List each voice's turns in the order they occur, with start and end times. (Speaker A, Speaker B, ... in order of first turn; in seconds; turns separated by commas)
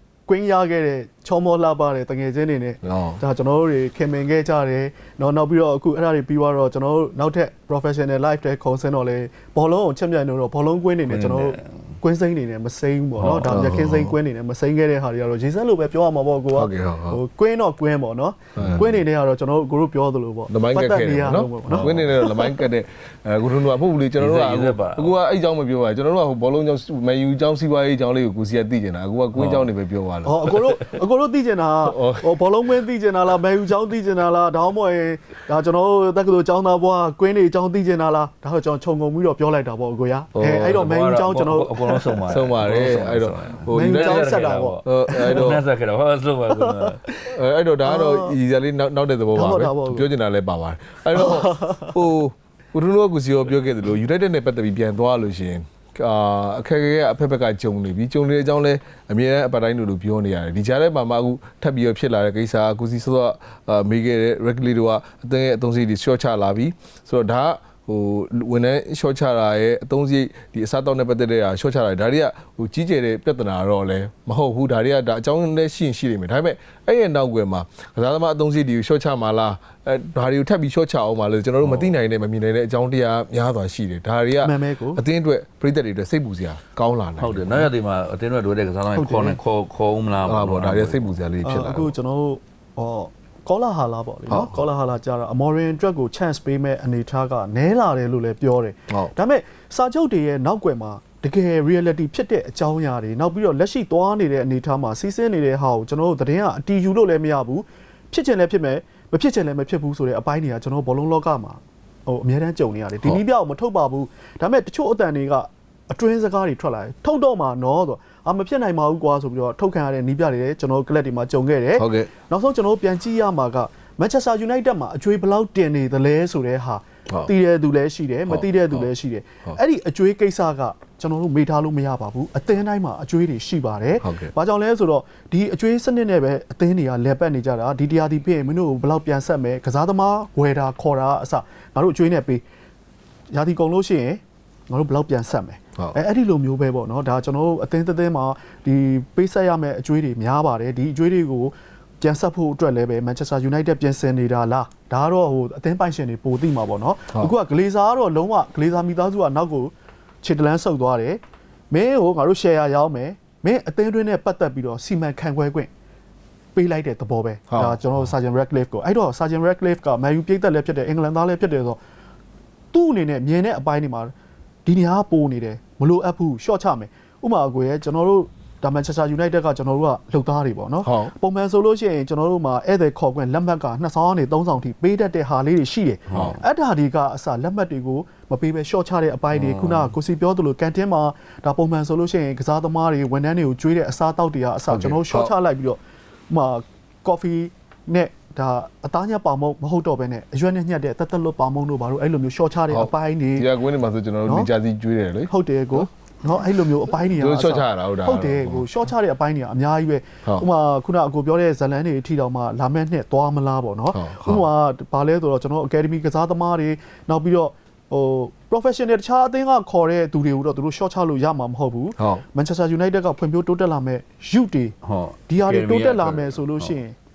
Speaker A: 0.3-22.6, Speaker B: 2.8-3.2, Speaker C: 11.1-11.6, Speaker C: 13.2-13.5, Speaker B: 13.3-14.1, Speaker B: 16.5-17.2, Speaker B: 18.6-18.9, Speaker B: 20.5-30.7, Speaker C: 21.7-22.0, Speaker C: 24.2-25.1, Speaker C: 29.3-29.7, Speaker A: 30.2-42.2, Speaker B: 31.8-32.4, Speaker B: 40.3-40.8, Speaker C: 40.5-47.0, Speaker B: 42.3-45.6, Speaker A: 43.7-45.5, Speaker A: 46.5-48.4, Speaker B: 47.2-87.7, Speaker A: 49.3-50.1, Speaker A: 51.1-52.0, Speaker C: 81.6-81.9, Speaker A: 84.4-85.0, Speaker C: 87.2-91.1, Speaker A: 88.9-89.4, Speaker B: 90.2-91.9, Speaker A: 91.4-142.4, Speaker B: 94.3-94.6, Speaker B: 121.8-122.1, Speaker B: 128.3-128.9, Speaker B: 134.0-134.3, Speaker A: 143.3-165.7, Speaker A: 166.5-171.8, Speaker B: 167.5-167.8, Speaker A: 172.7-174.1, Speaker A: 174.7-195.8, Speaker B: 180.8-181.1, Speaker C: 186.1-186.4, Speaker B: 189.5-189.9, Speaker B: 194.7-195.3, Speaker A: 196.3-203.5, Speaker B: 202.7-205.8, Speaker A: 205.3-224.8, Speaker B: 207.1-208.7, Speaker B: 213.9-214.5, Speaker B: 222.0-222.2, Speaker C: 224.8-226.7, Speaker A: 225.3-226.9